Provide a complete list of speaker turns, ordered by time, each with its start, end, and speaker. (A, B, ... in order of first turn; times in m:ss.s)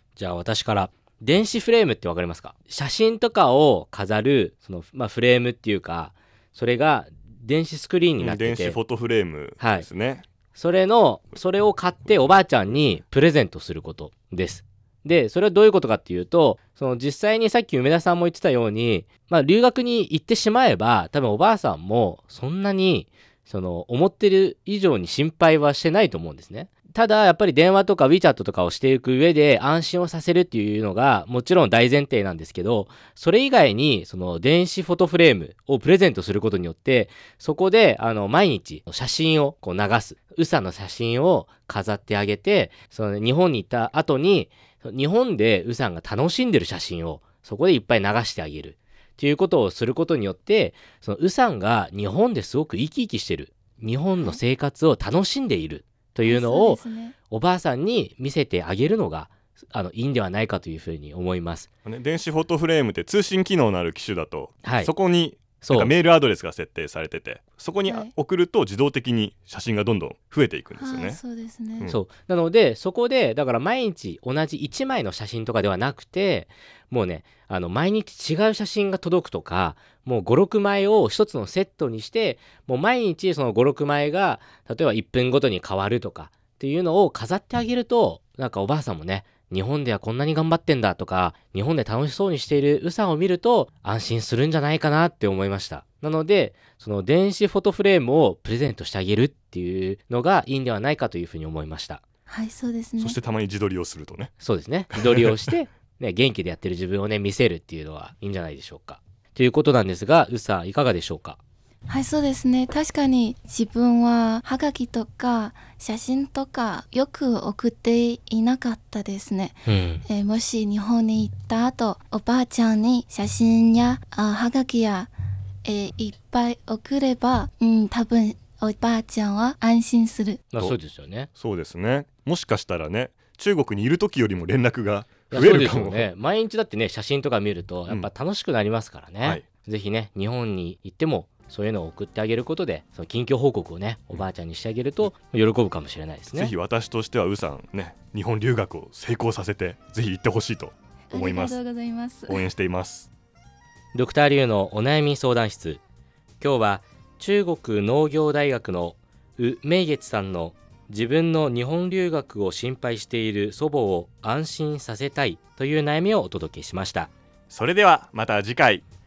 0:00.2-0:08.8 A
0:08.2-0:10.2 B
0:09.6-0:09.9 A
0:10.5-1:01.7 A
0:56.2-0:57.2 C
1:01.8-1:11.2 B
1:04.6-1:04.9 A
1:05.6-1:05.9 A
1:07.8-1:08.1 C
1:10.8-1:11.9 C
1:11.8-1:42.0 A
1:42.3-1:43.2 C
1:43.0-1:44.3 B
1:44.4-1:51.4 A
1:44.9-1:45.5 B
1:51.9-2:05.1 C
1:59.6-2:00.0 A
2:05.6-2:10.5 C
2:10.5-2:11.3 A
2:11.3-2:16.1 B
2:15.3-2:26.5 A
2:19.2-2:19.4 B
2:26.3-2:31.6 B
2:31.1-2:32.4 C
2:32.3-2:33.1 B
2:33.9-2:35.8 A
2:36.4-2:47.1 A
2:47.5-2:48.8 B